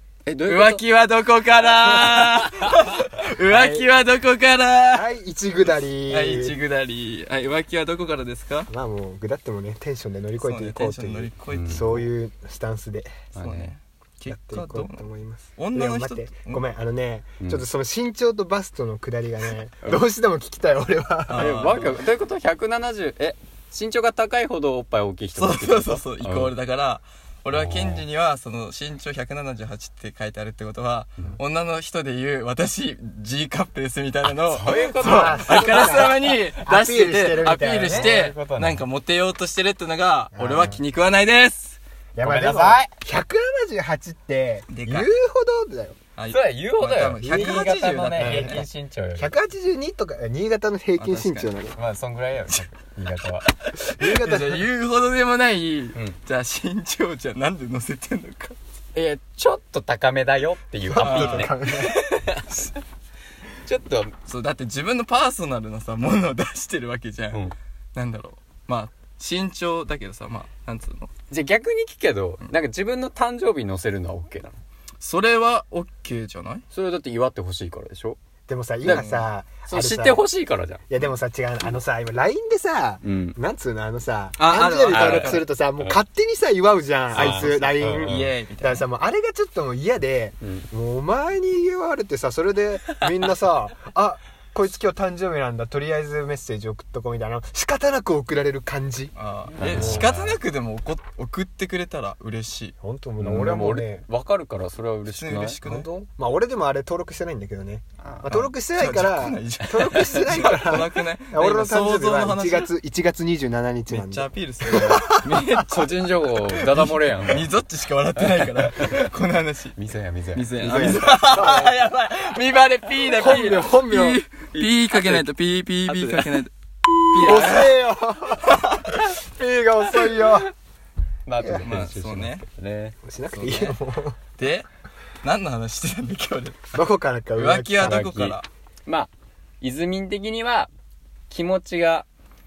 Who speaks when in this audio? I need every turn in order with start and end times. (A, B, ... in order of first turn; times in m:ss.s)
0:00.3-0:00.8 A
0:00.5-0:05.1 B
0:01.8-0:02.7 A
0:03.5-0:03.9 C
0:04.9-0:06.6 C
0:06.1-0:08.7 B
0:08.7-0:13.3 C
0:10.4-0:12.1 B
0:11.5-0:11.8 A
0:13.3-0:13.7 A
0:13.4-0:15.0 B
0:14.3-0:21.7 C
0:15.6-0:16.6 B
0:17.4-0:17.6 A
0:21.3-0:22.0 B
0:21.3-0:26.5 A
0:25.4-0:41.8 B
0:27.5-0:28.0 A
0:34.5-0:36.3 A
0:35.0-0:38.1 C
0:37.8-0:38.8 A
0:40.3-0:40.8 C
0:42.2-0:46.0 C
0:42.2-0:42.9 A
0:44.7-0:45.1 B
0:46.2-0:48.7 B
0:46.3-0:49.3 A
0:47.2-0:48.6 C
0:49.2-0:51.8 C
0:51.0-0:51.6 B
0:51.7-0:53.4 A
0:53.5-0:58.6 B
0:53.8-0:54.7 C
0:59.0-1:02.8 A
1:00.9-1:02.0 C
1:01.0-1:01.5 B
1:03.6-1:04.2 A
1:04.3-1:07.4 B
1:07.9-1:11.1 B
1:11.3-1:14.6 A
1:15.0-1:16.6 B
1:16.7-1:18.2 A
1:18.5-1:20.3 C
1:18.8-1:19.3 B
1:19.6-1:20.8 A
1:20.9-1:40.1 C
1:23.0-1:23.4 A
1:24.4-1:25.4 B
1:24.9-1:25.9 A
1:27.1-1:28.3 A
1:27.2-1:28.8 B
1:30.4-1:30.7 A
1:39.1-1:42.8 B
1:39.6-1:40.4 A
1:42.8-1:44.0 C
1:43.2-1:45.6 A
1:45.1-1:45.9 B
1:45.6-1:55.2 C
1:48.0-1:48.5 A
1:48.6-1:52.7 B
1:49.8-1:50.6 A
1:53.9-1:59.8 B
1:54.7-1:57.5 A
1:58.3-1:59.0 A
1:59.8-2:01.1 A
2:00.3-2:06.5 B
2:00.6-2:01.8 C
2:03.1-2:04.2 C
2:04.5-2:05.2 A
2:05.9-2:06.4 A
2:07.1-2:07.7 B
2:07.2-2:10.5 C
2:08.6-2:09.0 B
2:11.3-2:13.0 A
2:11.4-2:11.7 C
2:11.6-2:12.5 B
2:13.0-2:14.2 C
2:13.3-2:13.8 B
2:14.4-2:14.7 B
2:15.2-2:16.6 B
2:16.7-2:18.1 C
2:17.4-2:18.5 B
2:17.8-2:20.7 A
2:21.3-2:22.1 A